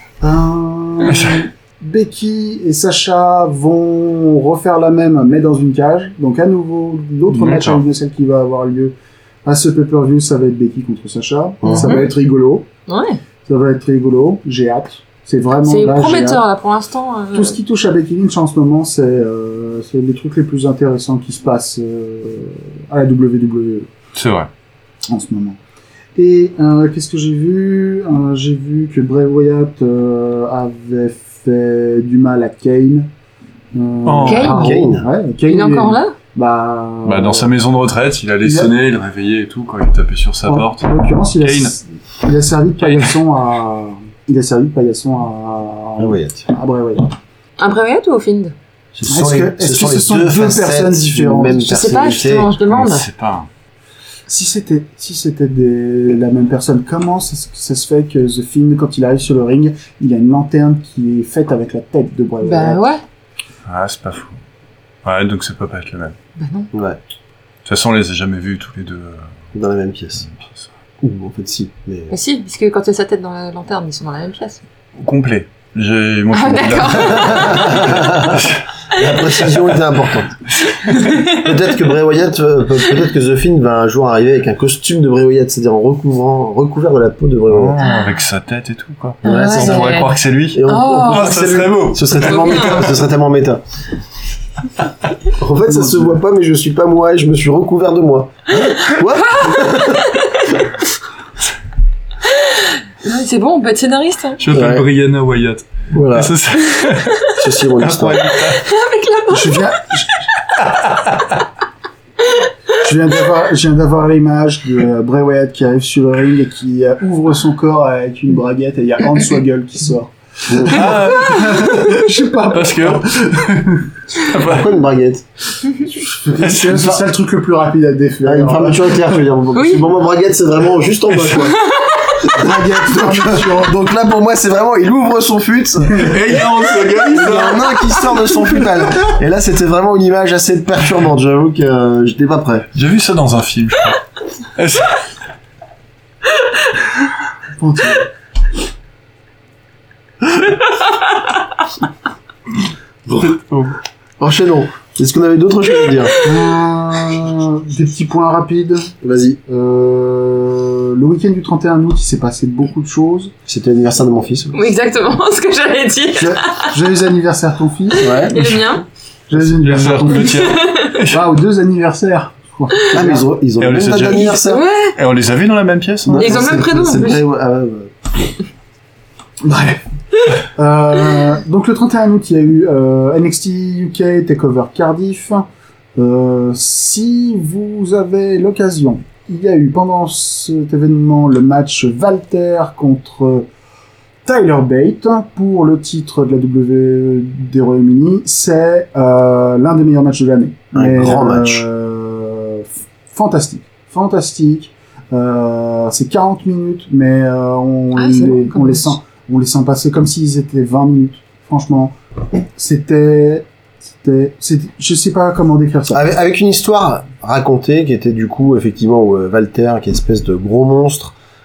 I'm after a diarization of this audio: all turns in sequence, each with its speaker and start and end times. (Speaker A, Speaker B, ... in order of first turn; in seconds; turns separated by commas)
Speaker A: 0.2-12.7, Speaker B: 1.1-1.4, Speaker B: 7.3-7.8, Speaker C: 11.6-12.1, Speaker D: 11.7-12.1, Speaker D: 12.9-13.2, Speaker A: 13.5-16.4, Speaker D: 15.6-17.6, Speaker A: 17.3-23.9, Speaker B: 24.1-24.5, Speaker A: 25.1-25.6, Speaker A: 26.1-33.1, Speaker A: 33.7-37.5, Speaker B: 34.0-34.6, Speaker D: 34.2-34.8, Speaker C: 34.5-35.1, Speaker D: 35.5-36.1, Speaker B: 37.0-40.9, Speaker A: 38.4-38.7, Speaker A: 40.5-47.1, Speaker B: 41.4-41.7, Speaker B: 42.8-43.1, Speaker C: 46.0-46.4, Speaker D: 47.6-48.5, Speaker C: 48.9-52.5, Speaker A: 49.0-51.8, Speaker D: 51.5-53.1, Speaker B: 52.7-53.5, Speaker A: 54.3-62.8, Speaker D: 62.4-63.0, Speaker B: 63.7-64.3, Speaker B: 65.0-66.1, Speaker D: 66.3-66.7, Speaker C: 66.7-67.0, Speaker B: 67.6-69.2, Speaker C: 69.5-70.3, Speaker B: 70.3-70.6, Speaker C: 71.0-72.1, Speaker D: 72.1-74.6, Speaker B: 75.0-78.6, Speaker D: 76.3-78.0, Speaker C: 77.2-80.4, Speaker D: 80.8-81.5, Speaker C: 81.1-87.8, Speaker B: 87.5-93.0, Speaker D: 87.8-88.1, Speaker C: 89.2-93.6, Speaker D: 89.2-90.1, Speaker D: 90.6-91.4, Speaker D: 92.2-92.9, Speaker C: 95.3-100.1, Speaker A: 95.7-96.2, Speaker D: 98.8-100.5, Speaker D: 102.3-104.4, Speaker B: 104.4-108.6, Speaker C: 104.5-104.8, Speaker C: 105.9-106.3, Speaker C: 107.4-108.4, Speaker D: 108.4-109.7, Speaker A: 109.3-110.2, Speaker B: 110.9-111.2, Speaker A: 112.7-123.8, Speaker C: 120.5-120.8, Speaker B: 120.6-124.7, Speaker C: 124.3-125.2, Speaker A: 125.9-129.2, Speaker B: 126.4-126.9, Speaker C: 128.2-131.6, Speaker D: 129.5-129.8, Speaker B: 131.1-131.5, Speaker D: 131.5-132.2, Speaker A: 132.2-133.8, Speaker C: 132.3-142.7, Speaker B: 136.0-138.3, Speaker B: 142.7-144.0, Speaker B: 144.6-145.0, Speaker A: 147.6-148.1, Speaker B: 153.1-153.7, Speaker C: 154.2-156.2, Speaker A: 156.2-158.9, Speaker C: 159.0-159.4, Speaker A: 159.5-163.3, Speaker C: 163.5-164.6, Speaker D: 164.5-166.7, Speaker A: 166.2-168.3, Speaker D: 167.9-168.8, Speaker C: 168.0-168.6, Speaker A: 169.3-170.5, Speaker B: 169.3-171.2, Speaker D: 170.2-171.0, Speaker A: 171.1-173.3, Speaker C: 172.9-174.6, Speaker B: 173.6-174.4, Speaker D: 174.4-175.0, Speaker B: 174.9-176.5, Speaker C: 176.1-178.2, Speaker D: 176.2-177.2, Speaker A: 179.4-179.8, Speaker A: 180.5-193.5, Speaker A: 194.2-216.0, Speaker C: 200.7-201.6, Speaker D: 207.9-208.9, Speaker C: 215.9-221.1